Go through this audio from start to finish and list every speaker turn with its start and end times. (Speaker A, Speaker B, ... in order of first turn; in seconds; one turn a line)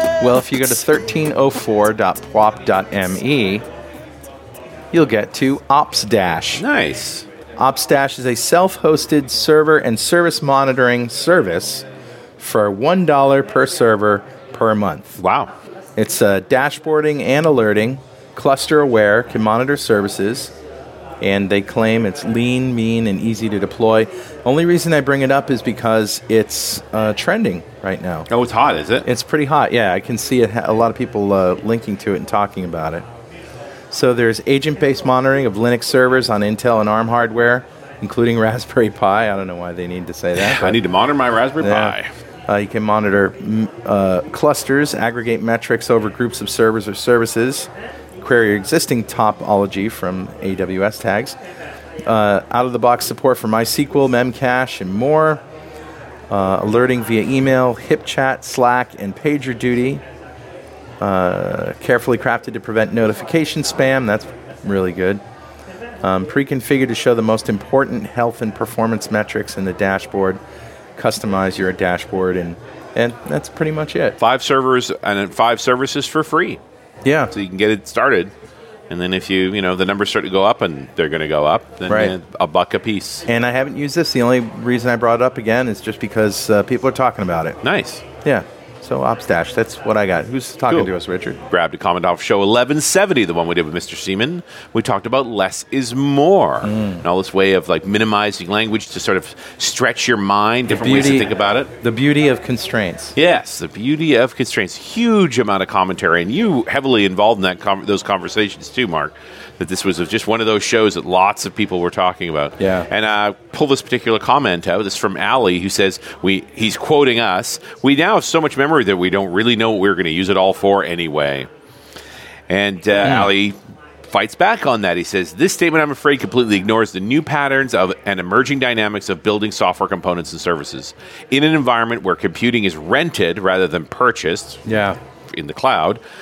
Speaker A: 0.2-3.6
Speaker A: 4.9-6.6
Speaker B: 6.6-7.3
Speaker A: 7.6-11.8
Speaker A: 12.4-15.2
Speaker B: 15.2-15.5
Speaker A: 16.0-20.5
Speaker A: 21.2-28.3
Speaker B: 28.3-29.1
Speaker A: 29.1-33.0
Speaker A: 33.9-40.8
Speaker B: 40.4-42.1
Speaker A: 41.6-42.0
Speaker A: 42.5-47.7
Speaker A: 48.2-51.4
Speaker A: 52.0-55.4
Speaker A: 56.3-60.0
Speaker A: 61.0-65.2
Speaker A: 66.0-70.4
Speaker A: 71.0-74.2
Speaker B: 74.2-76.6
Speaker A: 77.0-77.3
Speaker B: 77.3-78.3
Speaker B: 78.9-83.2
Speaker A: 81.9-82.2
Speaker A: 83.3-87.6
Speaker B: 87.6-88.0
Speaker A: 88.2-91.4
Speaker B: 90.7-101.7
Speaker A: 96.6-97.0
Speaker A: 100.7-103.2
Speaker B: 103.2-121.5
Speaker A: 112.6-112.9
Speaker B: 122.5-134.6
Speaker A: 134.7-135.0
Speaker B: 135.3-136.0